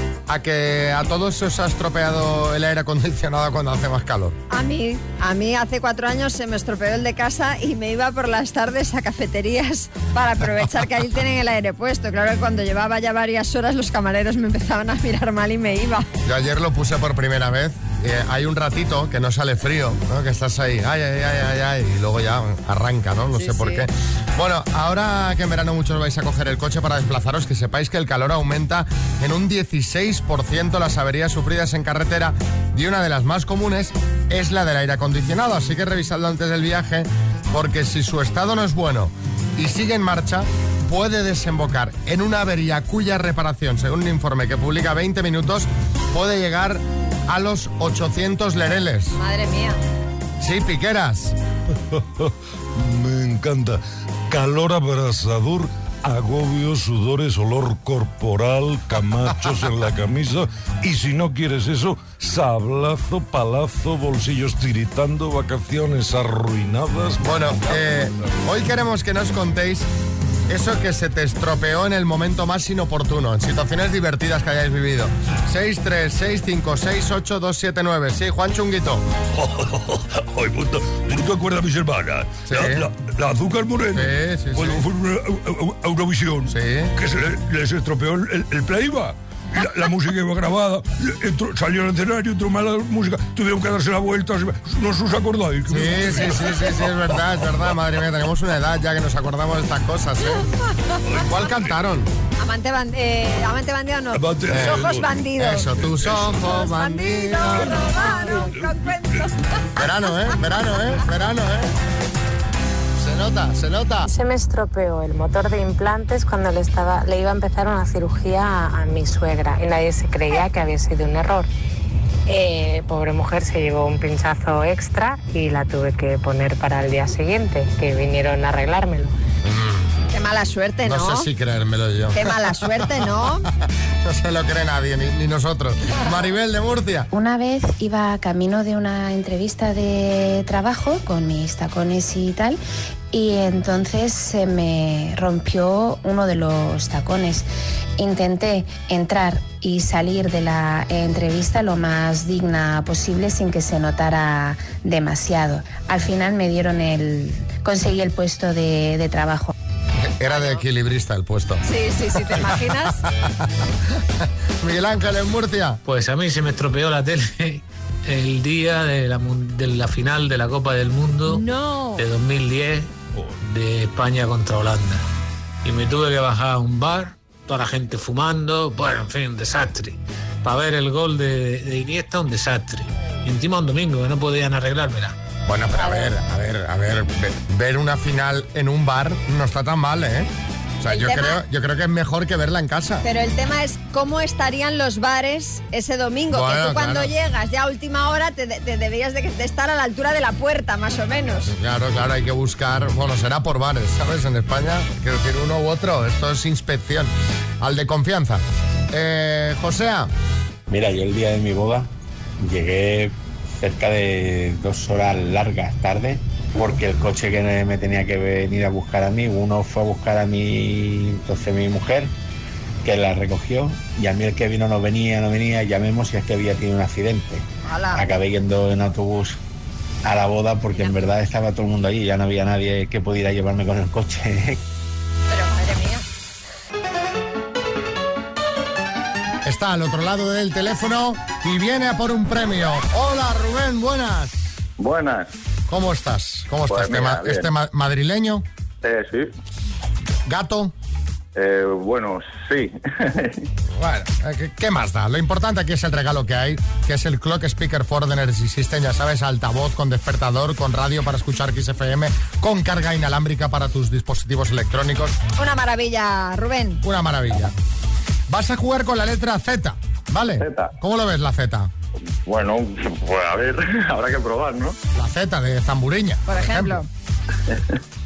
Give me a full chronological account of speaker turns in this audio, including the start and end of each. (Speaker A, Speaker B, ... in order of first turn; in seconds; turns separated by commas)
Speaker A: 0.3-4.4, Speaker B: 4.5-16.1, Speaker A: 16.2-49.2, Speaker B: 23.4-23.9, Speaker B: 49.2-49.8, Speaker A: 50.4-51.4, Speaker C: 51.7-67.3, Speaker A: 67.2-69.9, Speaker A: 70.5-79.0, Speaker C: 79.4-97.0, Speaker A: 82.5-82.9, Speaker A: 83.9-84.8, Speaker A: 86.5-86.9, Speaker A: 95.7-100.5, Speaker C: 101.1-101.6, Speaker A: 101.2-102.1, Speaker B: 102.4-105.7, Speaker C: 104.1-105.2, Speaker A: 104.5-104.9, Speaker A: 105.4-108.0, Speaker C: 105.8-106.3, Speaker B: 106.2-109.4, Speaker C: 107.5-109.3, Speaker A: 109.8-111.8, Speaker A: 113.0-114.1, Speaker D: 114.0-121.5, Speaker D: 122.3-129.2, Speaker A: 129.4-130.0, Speaker B: 130.1-131.3, Speaker A: 130.8-133.3, Speaker B: 132.1-133.5, Speaker A: 134.0-137.1, Speaker E: 137.1-142.6, Speaker E: 143.1-147.5, Speaker E: 148.0-159.5, Speaker A: 160.0-165.8, Speaker B: 160.3-160.6, Speaker B: 161.7-163.1, Speaker F: 165.9-175.0, Speaker B: 171.3-172.1, Speaker F: 175.7-185.1, Speaker A: 185.5-190.3, Speaker B: 185.8-186.1, Speaker A: 190.8-193.1, Speaker B: 190.8-191.4, Speaker B: 193.0-201.5, Speaker A: 196.3-197.1, Speaker A: 201.5-210.1, Speaker G: 210.7-211.9, Speaker G: 212.4-222.1, Speaker G: 222.8-229.4, Speaker B: 227.7-228.1, Speaker G: 230.0-234.6, Speaker B: 235.3-236.1, Speaker A: 239.4-244.6, Speaker H: 244.8-245.3, Speaker A: 245.7-248.5, Speaker H: 246.7-247.5, Speaker H: 248.8-249.3, Speaker A: 250.3-250.7, Speaker H: 251.3-253.5, Speaker A: 253.7-265.2, Speaker B: 265.4-266.8, Speaker A: 266.8-267.5, Speaker A: 268.3-271.7, Speaker H: 270.4-270.7, Speaker H: 272.2-274.8, Speaker A: 274.9-276.8, Speaker B: 276.3-276.9